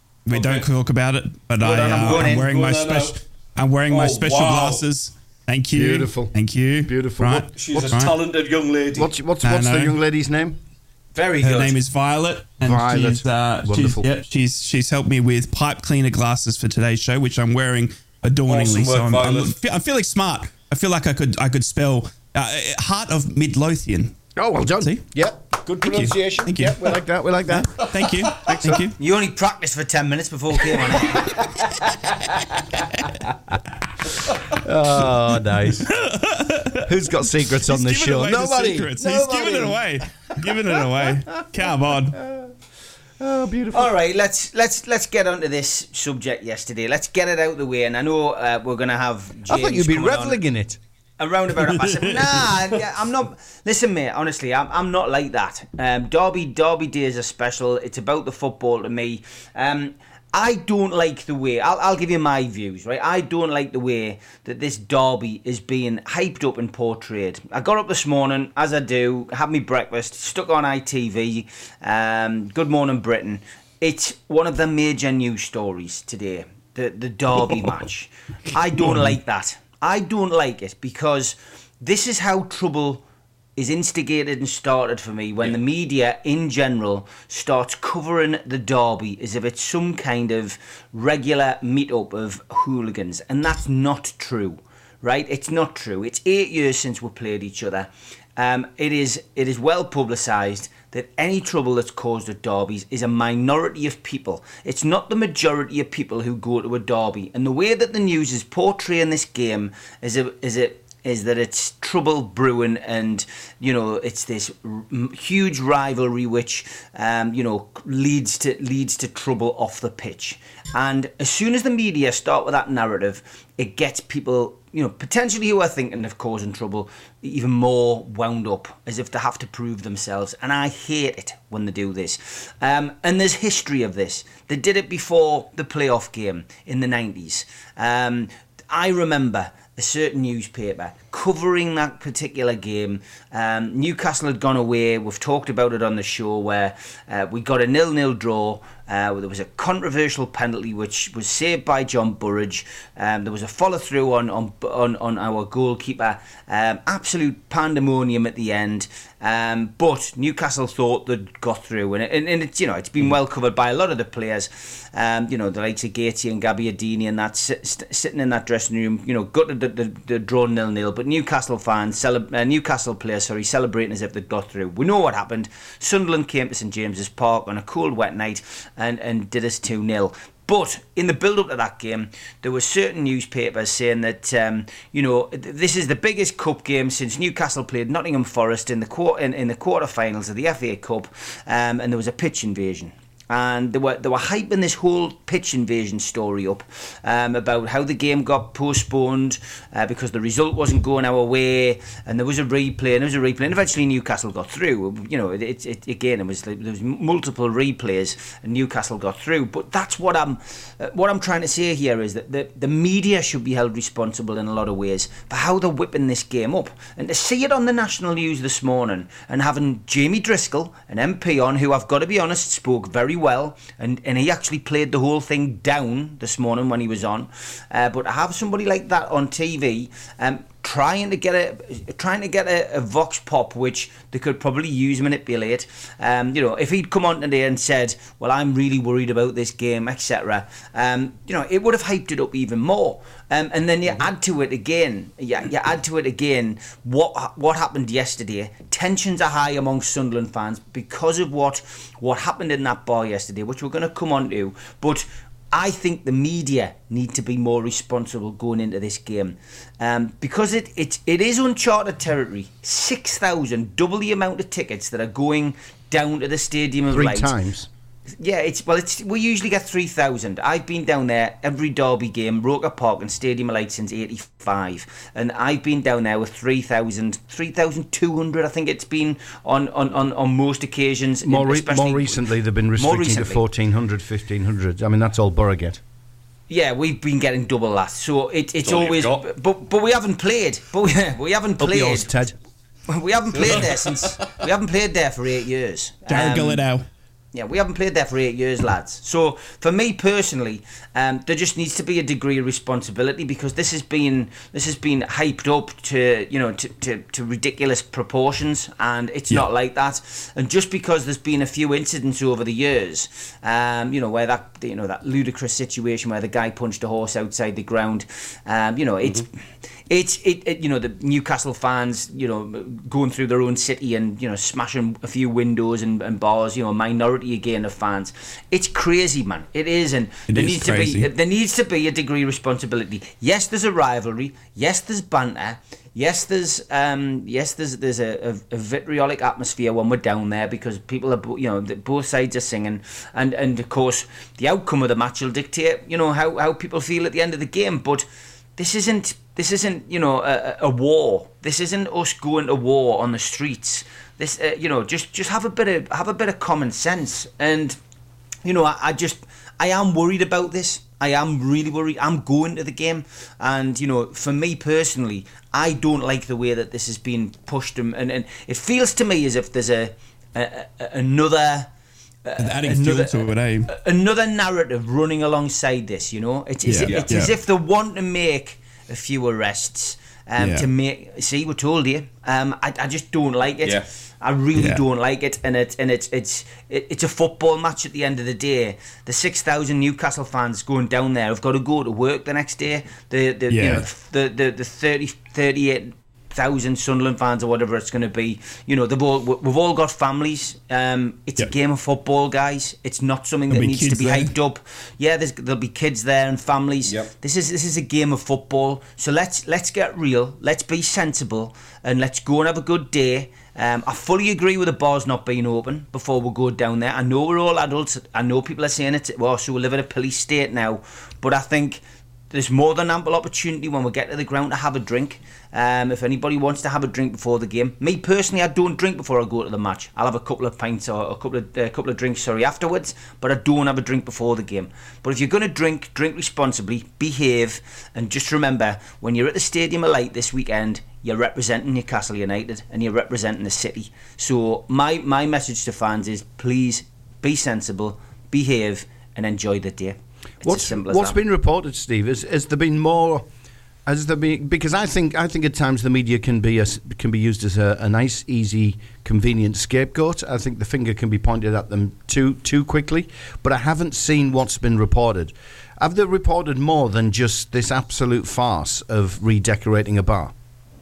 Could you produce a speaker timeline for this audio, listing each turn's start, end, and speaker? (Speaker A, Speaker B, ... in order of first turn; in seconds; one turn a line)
Speaker A: 0.3-8.2
Speaker B: 0.3-0.7
Speaker B: 1.6-3.1
Speaker C: 1.6-2.5
Speaker B: 3.9-4.8
Speaker D: 5.7-6.3
Speaker D: 6.8-7.5
Speaker B: 7.5-9.1
Speaker D: 8.9-10.6
Speaker A: 9.4-10.0
Speaker C: 11.2-11.8
Speaker A: 11.4-24.2
Speaker D: 12.6-14.1
Speaker B: 18.5-19.5
Speaker D: 24.4-27.9
Speaker A: 24.8-25.0
Speaker A: 25.8-26.9
Speaker A: 27.5-29.0
Speaker C: 29.0-31.5
Speaker D: 34.5-35.9
Speaker A: 35.8-36.9
Speaker D: 36.9-39.9
Speaker A: 37.6-42.2
Speaker D: 40.4-41.1
Speaker D: 41.6-42.5
Speaker D: 43.2-43.9
Speaker C: 43.7-50.4
Speaker D: 49.5-50.8
Speaker C: 51.2-83.0
Speaker C: 83.6-267.4
Speaker D: 266.9-267.7
Speaker C: 268.2-283.4
Speaker D: 281.2-285.8
Speaker C: 286.5-292.1
Speaker B: 288.6-289.3
Speaker D: 291.6-292.4
Speaker C: 292.9-296.6
Speaker B: 293.3-294.1
Speaker A: 296.1-296.9
Speaker C: 297.3-319.3
Speaker C: 319.9-348.1
Speaker A: 330.3-331.1
Speaker C: 348.6-357.8
Speaker C: 358.4-371.7
Speaker C: 372.2-451.2
Speaker A: 372.4-373.7
Speaker A: 376.7-377.3
Speaker B: 376.9-377.1
Speaker A: 380.4-380.7
Speaker A: 384.6-384.8
Speaker A: 393.5-393.9
Speaker A: 403.5-404.3
Speaker D: 450.4-453.3
Speaker D: 453.9-470.3